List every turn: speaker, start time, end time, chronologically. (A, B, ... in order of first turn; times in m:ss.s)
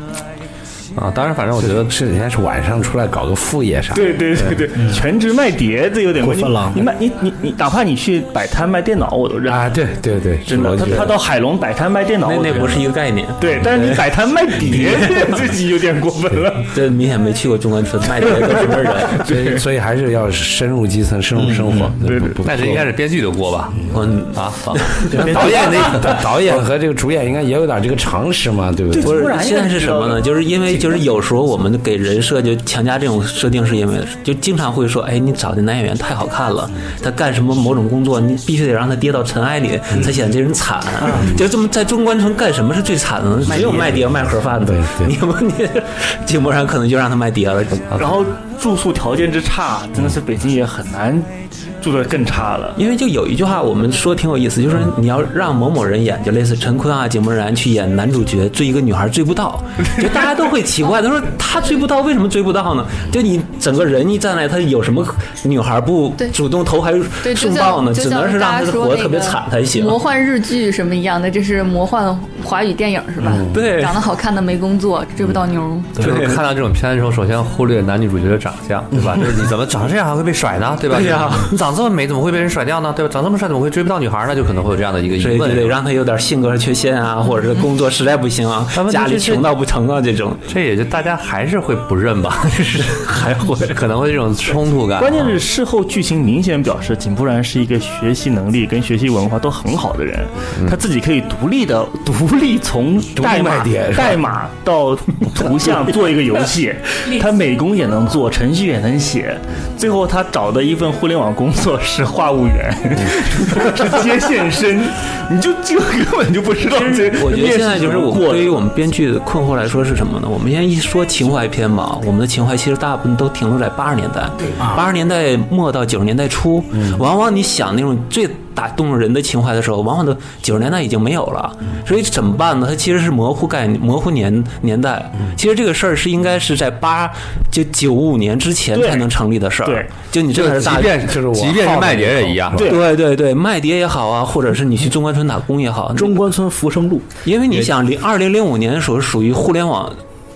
0:01.0-0:01.9 A
0:01.6-0:04.2 B
0:03.9-0:09.7 C
0:04.7-0:05.0 D
0:06.2-0:06.9 D
0:09.4-0:11.2 B
0:10.4-0:16.7 C
0:12.2-0:15.5 E
0:16.7-0:19.2 E
0:19.0-0:19.6 C
0:19.2-0:22.9 B
0:21.3-0:21.9 D
0:22.0-0:22.4 C
0:22.4-0:26.2 A
0:23.9-0:25.1 E
0:25.1-0:29.2 B
0:25.4-0:25.7 C
0:28.9-0:30.8 C
0:29.0-0:48.0 E
0:41.0-0:41.3 D
0:43.5-0:43.8 D
0:43.7-0:45.2 B
0:47.9-0:52.8 C
0:52.8-1:10.0 E
1:07.2-1:16.0 F
1:13.5-1:13.9 A
1:13.6-1:13.9 E
1:16.0-1:25.8 A
1:16.0-1:16.4 E
1:20.9-1:21.5 E
1:25.2-1:30.4 E
1:28.7-1:29.5 A
1:30.5-1:35.4 A
1:35.0-1:58.6 C
1:43.2-1:44.2 B
1:56.6-2:21.0 E
2:04.6-2:04.8 D
2:18.7-2:19.1 C
2:19.6-2:19.9 C
2:20.3-2:22.6 A
2:20.8-2:22.7 B
2:22.6-2:22.8 C
2:22.6-2:26.2 E
2:25.9-2:27.1 D
2:27.2-2:30.0 E